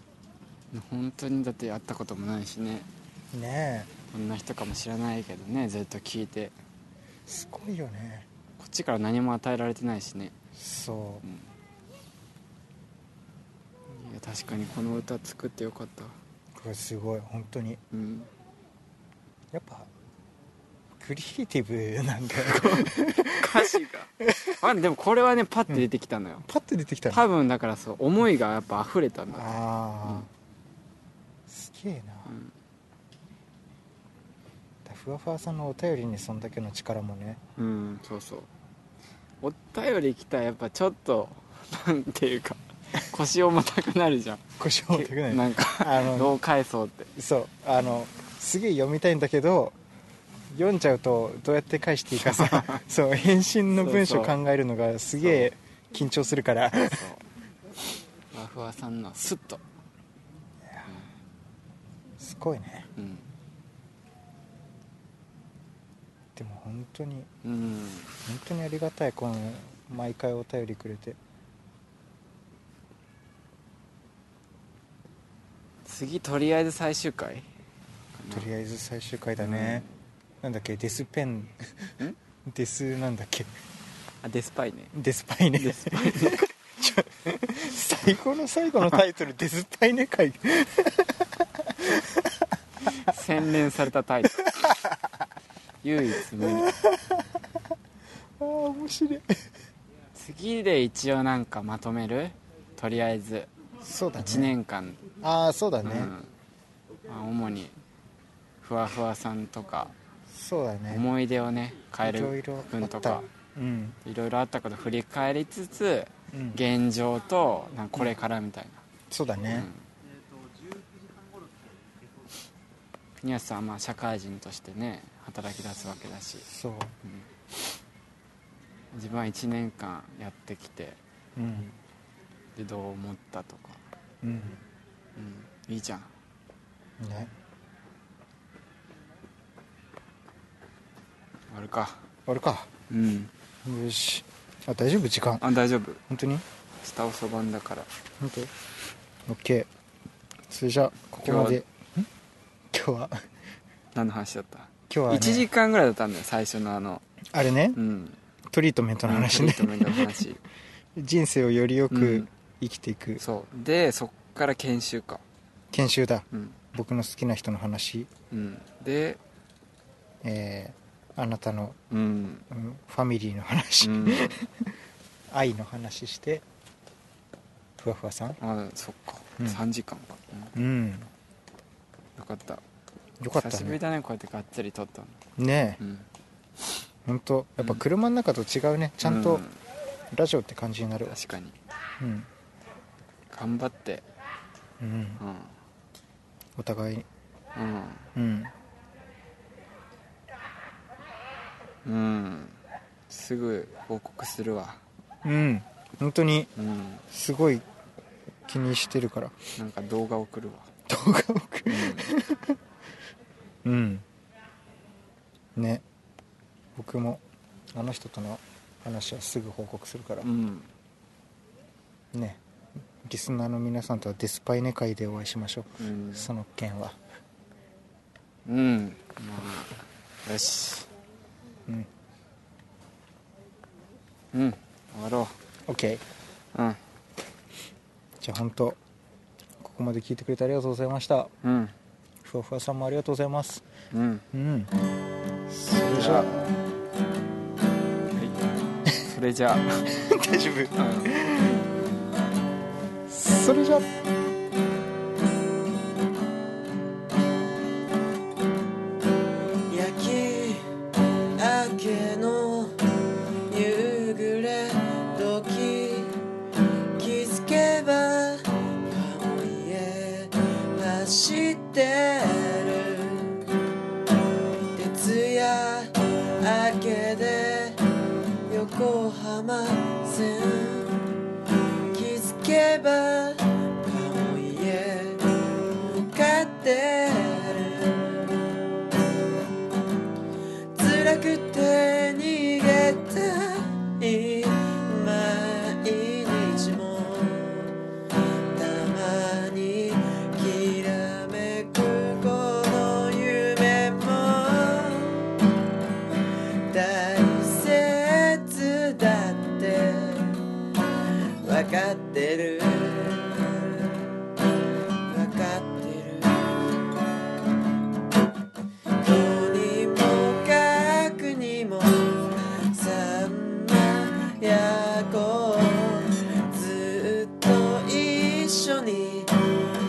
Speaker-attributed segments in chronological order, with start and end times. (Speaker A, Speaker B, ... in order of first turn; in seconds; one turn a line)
Speaker A: 0.7-2.9
Speaker B: 3.3-3.9
Speaker A: 4.1-6.5
Speaker B: 7.3-8.3
Speaker A: 8.6-10.3
Speaker B: 10.6-11.2
Speaker A: 11.2-11.5
Speaker A: 13.9-16.1
Speaker B: 16.6-17.8
Speaker A: 17.9-18.3
Speaker B: 19.5-19.9
Speaker B: 21.0-24.6
Speaker A: 22.3-24.1
Speaker A: 24.6-26.4
Speaker B: 26.4-27.2
Speaker A: 27.1-29.5
Speaker B: 29.3-30.3
Speaker B: 31.5-32.3
Speaker A: 32.3-32.5
Speaker B: 34.8-37.4
Speaker A: 37.6-38.5
Speaker A: 39.4-47.1
Speaker B: 44.6-46.3
Speaker B: 47.1-49.8
Speaker B: 50.5-57.1
Speaker A: 52.2-52.8
Speaker A: 53.8-54.4
Speaker A: 55.2-55.5
Speaker A: 56.8-57.2
Speaker A: 58.3-59.6
Speaker B: 62.2-62.9
Speaker A: 63.0-63.3
Speaker B: 66.3-67.3
Speaker A: 67.4-68.1
Speaker B: 68.2-71.2
Speaker A: 75.8-77.5
Speaker A: 78.1-78.5
Speaker B: 78.3-79.8
Speaker A: 79.4-79.9
Speaker B: 80.4-81.7
Speaker B: 82.5-83.5
Speaker A: 84.2-84.9
Speaker B: 84.9-92.5
Speaker A: 85.6-86.5
Speaker A: 92.9-94.5
Speaker B: 94.4-95.2
Speaker A: 95.8-96.7
Speaker B: 96.4-97.6
Speaker B: 98.4-99.4
Speaker A: 100.1-103.5
Speaker B: 103.8-104.5
Speaker A: 104.2-105.0
Speaker B: 105.2-106.1
Speaker A: 105.8-106.3
Speaker A: 107.1-107.8
Speaker A: 108.6-109.9
Speaker B: 110.3-111.0
Speaker A: 110.9-113.2
Speaker B: 112.0-114.0
Speaker A: 114.0-118.8
Speaker B: 116.3-116.6
Speaker B: 119.1-119.7
Speaker A: 119.5-119.8
Speaker A: 123.2-126.5
Speaker B: 126.5-127.0
Speaker A: 128.9-131.0
Speaker B: 131.3-131.7
Speaker A: 132.6-133.8
Speaker B: 134.2-134.6
Speaker A: 135.2-136.1
Speaker B: 137.0-137.3
Speaker A: 141.5-142.0
Speaker B: 142.3-142.7
Speaker A: 142.9-143.3
Speaker B: 143.6-145.4
Speaker A: 145.4-146.0
Speaker B: 146.1-146.4
Speaker A: 146.8-147.9
Speaker B: 148.2-148.5
Speaker B: 149.2-149.7
Speaker B: 150.5-152.1
Speaker A: 151.2-151.6
Speaker B: 152.7-153.2
Speaker A: 153.9-157.0
Speaker B: 154.9-155.5
Speaker B: 157.3-157.8
Speaker A: 157.7-158.2
Speaker B: 158.5-160.1
Speaker A: 159.0-160.4
Speaker B: 160.9-163.2
Speaker A: 161.9-162.3
Speaker A: 163.2-165.2
Speaker B: 165.7-168.1
Speaker A: 166.3-166.6
Speaker A: 168.3-169.2
Speaker B: 170.2-171.8
Speaker A: 171.9-172.4
Speaker B: 172.5-174.8
Speaker A: 173.8-174.4
Speaker B: 175.3-176.4
Speaker B: 177.8-178.4
Speaker A: 178.4-180.5
Speaker B: 180.5-181.1
Speaker A: 182.2-182.6
Speaker B: 183.2-183.8
Speaker A: 183.3-185.2
Speaker B: 185.4-185.8
Speaker A: 185.8-186.1
Speaker B: 187.1-189.4
Speaker A: 187.6-187.8
Speaker A: 189.0-189.6
Speaker B: 190.1-191.2
Speaker A: 191.1-191.6
Speaker B: 192.0-192.3
Speaker A: 193.3-194.0
Speaker B: 194.8-195.2
Speaker A: 195.2-195.5
Speaker B: 196.6-197.1
Speaker A: 197.5-198.1
Speaker B: 198.1-198.5
Speaker A: 201.8-204.8
Speaker B: 205.2-206.5
Speaker A: 206.6-207.0
Speaker B: 207.1-207.6
Speaker B: 208.4-209.3
Speaker A: 209.6-210.7
Speaker B: 210.9-212.6
Speaker A: 211.7-212.1
Speaker B: 213.6-214.0
Speaker B: 215.6-215.8
Speaker B: 216.8-217.2
Speaker B: 217.7-220.3
Speaker A: 220.2-220.7
Speaker B: 222.1-222.4
Speaker B: 223.0-227.0
Speaker A: 225.8-226.3
Speaker A: 228.4-230.9
Speaker A: 234.3-235.3
Speaker B: 235.7-236.0
Speaker A: 236.5-236.8
Speaker B: 238.2-238.8
Speaker B: 239.6-241.3
Speaker A: 241.4-241.7
Speaker B: 242.2-243.6
Speaker A: 243.9-244.2
Speaker B: 244.3-244.7
Speaker B: 245.5-246.5
Speaker A: 245.8-246.4
Speaker A: 248.1-248.4
Speaker A: 249.0-249.9
Speaker B: 249.9-251.6
Speaker A: 250.8-251.1
Speaker B: 253.1-253.9
Speaker C: 259.7-260.7
Speaker C: 261.4-262.9
Speaker C: 263.5-266.1
Speaker C: 266.9-273.4
Speaker C: 274.7-277.8
Speaker C: 278.5-281.2
Speaker C: 281.9-288.5
Speaker C: 290.7-297.8
Speaker C: 298.5-305.4
Speaker C: 306.7-310.4
Speaker C: 311.4-314.0
Speaker C: 315.0-316.7
Speaker C: 319.0-329.5